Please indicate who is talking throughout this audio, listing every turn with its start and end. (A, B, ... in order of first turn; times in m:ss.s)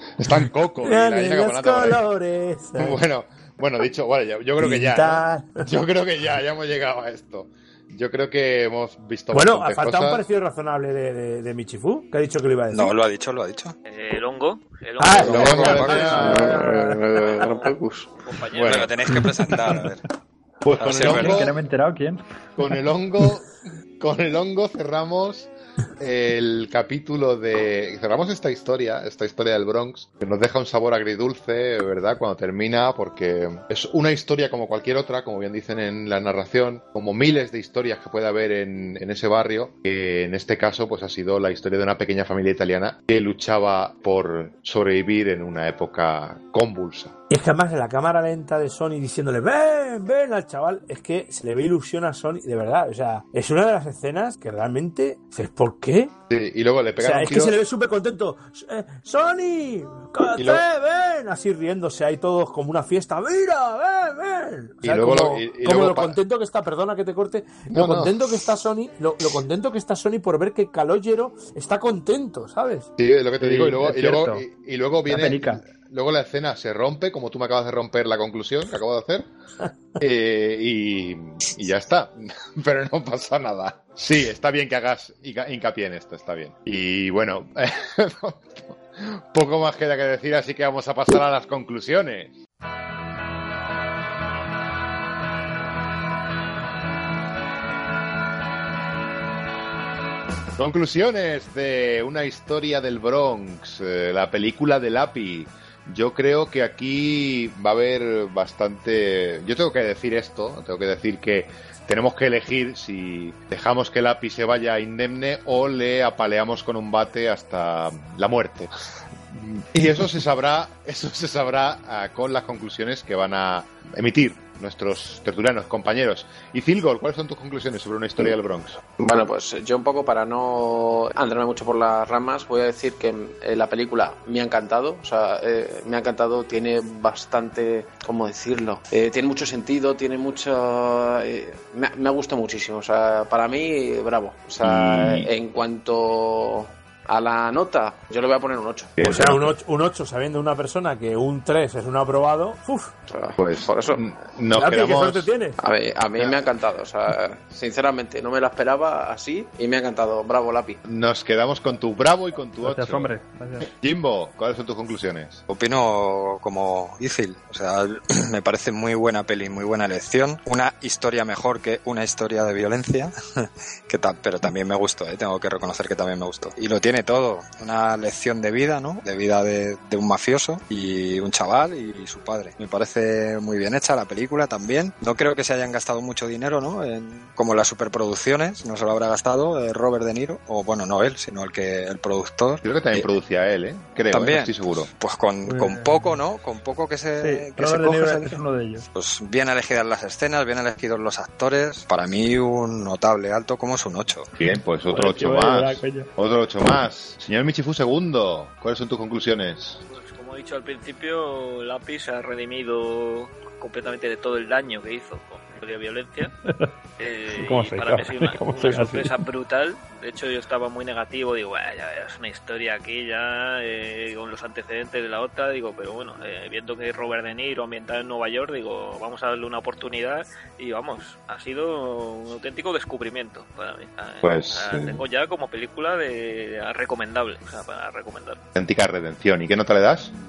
0:00.2-0:02.0 A
0:00.8-0:03.0 B
0:02.8-0:10.2 A
0:04.6-0:05.6 B
0:09.3-0:12.9 B
0:12.7-0:13.8 C
0:13.9-0:16.4 D
0:15.0-0:16.9 B
0:15.2-0:16.2 C
0:15.3-0:16.7 A
0:15.3-0:18.1 E
0:17.2-0:19.0 D
0:18.6-0:18.9 A
0:18.6-0:20.0 C
0:20.6-0:21.6 A
0:20.8-0:21.5 C
0:21.0-0:22.2 F
0:22.6-0:23.5 A
0:24.0-0:47.1 A
0:47.3-0:56.1 B
0:56.3-0:57.6 A
0:57.0-1:12.9 B
1:00.4-1:00.6 A
1:04.8-1:06.2 A
1:07.7-1:08.1 A
1:13.0-1:19.3 A
1:13.4-1:14.5 F
1:15.1-1:15.6 F
1:20.0-1:32.3 A
1:40.6-1:58.7 A
1:59.3-2:08.8 A
2:09.0-2:29.0 E
2:24.6-2:25.3 A
2:29.0-2:29.5 A
2:29.0-2:32.9 B
2:33.1-2:34.0 E
2:33.4-2:35.3 A
2:34.5-2:35.6 B
2:35.6-2:40.8 E
2:40.8-2:45.4 A
2:42.6-2:43.7 F
2:45.5-3:13.1 C
3:12.6-3:14.9 A
3:14.1-3:18.4 C
3:15.5-3:16.2 F
3:17.2-3:18.9 F
3:18.9-3:24.3 C
3:24.4-3:29.8 A
3:24.9-3:26.1 F
3:29.9-3:36.3 D
3:37.0-3:58.4 D
3:37.4-3:39.1 F
3:54.2-3:55.0 A
3:58.6-4:00.1 A